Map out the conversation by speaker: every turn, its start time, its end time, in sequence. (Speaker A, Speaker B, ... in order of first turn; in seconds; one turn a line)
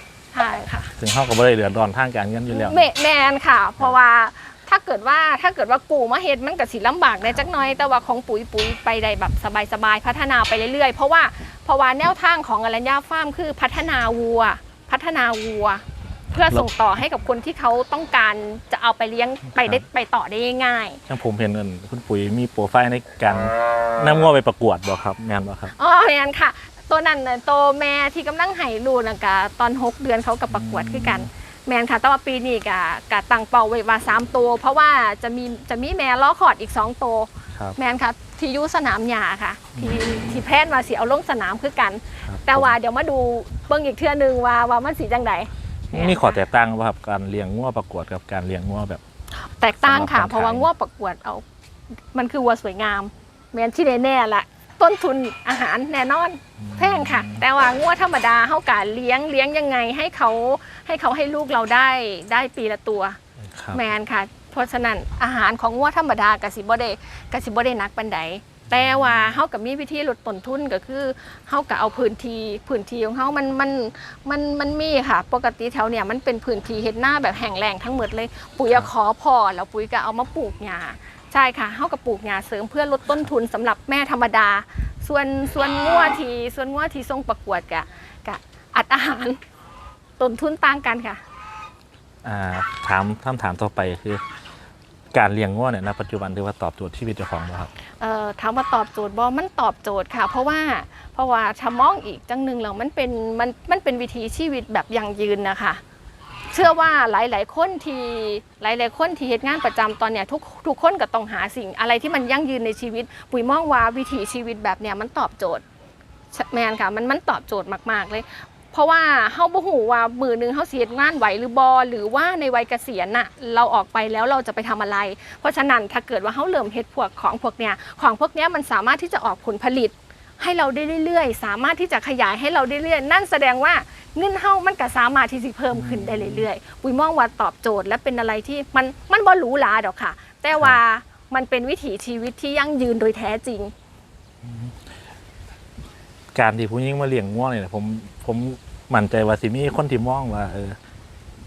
Speaker A: 0.3-0.9
Speaker B: 1.0-2.8
Speaker A: 2.5-21.0
Speaker B: 16.4-16.7
Speaker B: 19.6-19.8
Speaker B: 21.1-25.7
Speaker A: 25.7-46.4
Speaker B: 30.5-31.3
Speaker B: 39.8-40.4
Speaker B: 42.2-42.7
Speaker B: 45.9-49.0
Speaker A: 49.5-51.4
Speaker B: 49.8-50.7
Speaker A: 52.1-63.2
Speaker B: 56.6-57.4
Speaker B: 63.5-63.8
Speaker A: 63.7-89.4
Speaker B: 68.7-69.4
Speaker A: 90.2-91.2
Speaker B: 92.2-94.2
Speaker B: 95.1-97.7
Speaker A: 98.0-105.8
Speaker A: 106.5-115.6
Speaker A: 116.3-143.7
Speaker B: 135.7-136.5
Speaker B: 144.4-144.8
Speaker B: 146.3-150.8